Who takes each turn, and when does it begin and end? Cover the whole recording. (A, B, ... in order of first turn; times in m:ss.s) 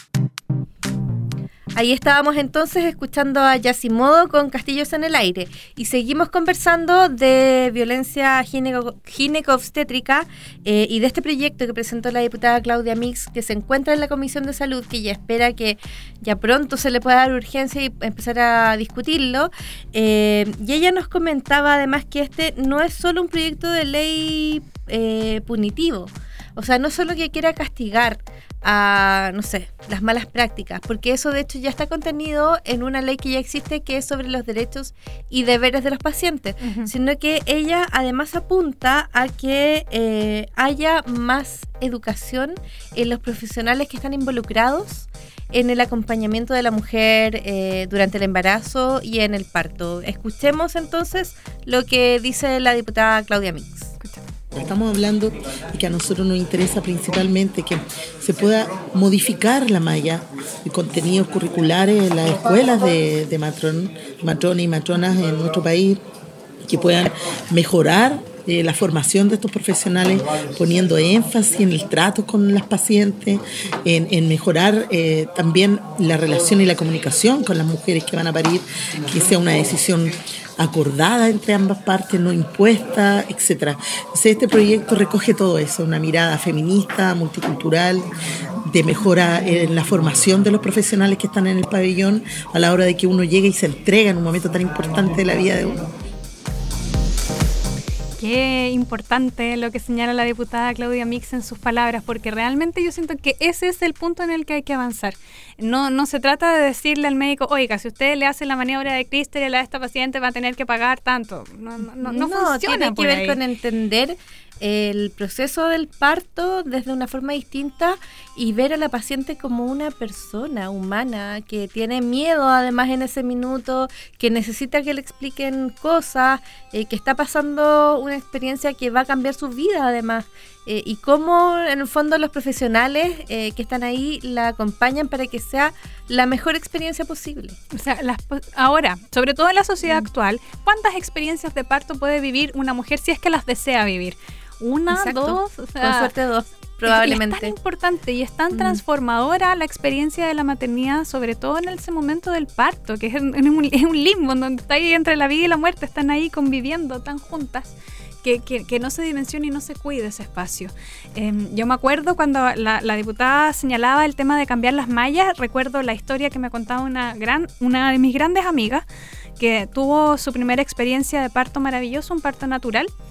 0:01.7-0:53.9 A
0:36.6-0:36.9 B
0:54.5-1:06.0 C
1:06.7-1:28.1 C
1:28.7-1:35.8 C
1:38.2-1:53.4 B
1:52.0-2:17.6 A
2:17.7-2:26.1 B
2:24.9-2:27.5 A
2:26.9-2:48.8 B
2:28.5-2:28.8 A
2:49.4-2:52.9 B